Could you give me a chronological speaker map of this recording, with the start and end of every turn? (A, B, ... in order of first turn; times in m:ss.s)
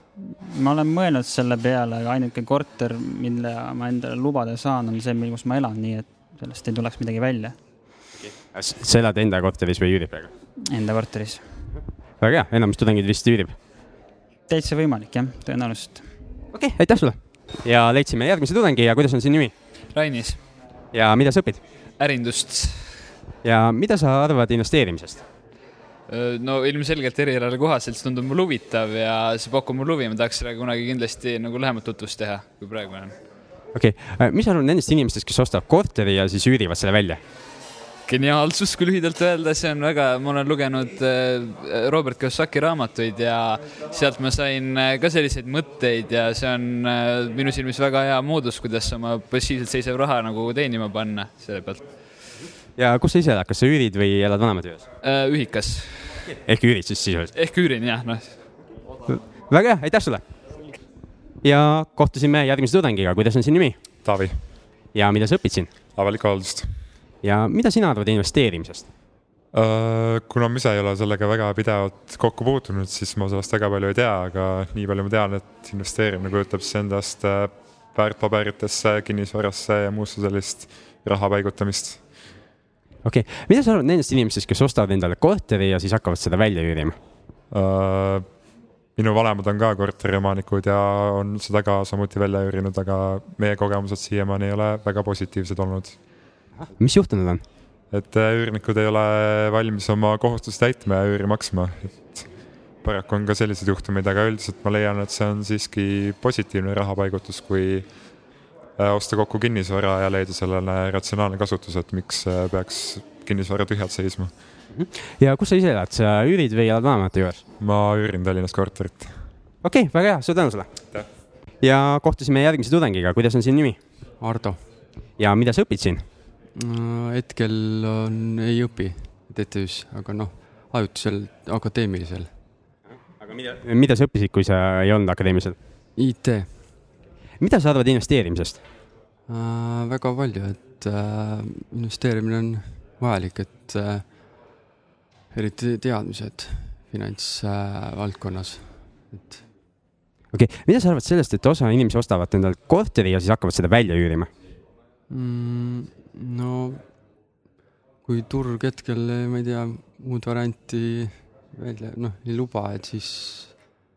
0:00.4-0:07.6 A
0:08.2-0:10.3 B
0:10.7-0:11.4 A
0:12.2-0:13.6 B
0:14.5-0:16.1 A
0:16.5-0:19.5 B
0:19.9-0:20.4 C
0:20.9-0:21.6 B
0:22.0-0:23.1 C
0:23.4-0:25.2 B
0:26.1-0:33.1 C
0:33.7-0:37.2 B
0:38.1-0:52.1 C
0:52.7-0:54.8 B
0:55.0-0:56.3 C
0:56.3-0:57.3 B
0:57.3-0:58.4 C
0:59.1-1:00.2 B
1:01.4-1:03.8 B
1:04.0-1:04.4 D
1:04.9-1:05.7 B
1:05.9-1:06.7 D
1:07.2-1:08.9 B
1:09.5-1:22.1 D
1:23.0-1:27.0 B
1:27.5-1:28.4 D
1:29.0-1:36.0 D
1:36.8-1:37.4 B
1:37.9-1:42.3 D
1:42.8-1:54.3 D
1:54.7-1:57.4 B
1:57.6-1:59.2 D
1:59.6-2:00.8 B
2:01.6-2:03.8 B
2:04.2-2:04.6 E
2:05.2-2:06.0 B
2:06.5-2:12.3 E
2:13.1-2:15.6 B
2:16.0-2:16.6 E
2:17.4-2:18.6 B
2:19.3-2:24.3 E
2:25.3-2:29.5 E
2:30.3-2:34.3 B
2:35.1-2:37.0 E
2:38.0-2:43.6 E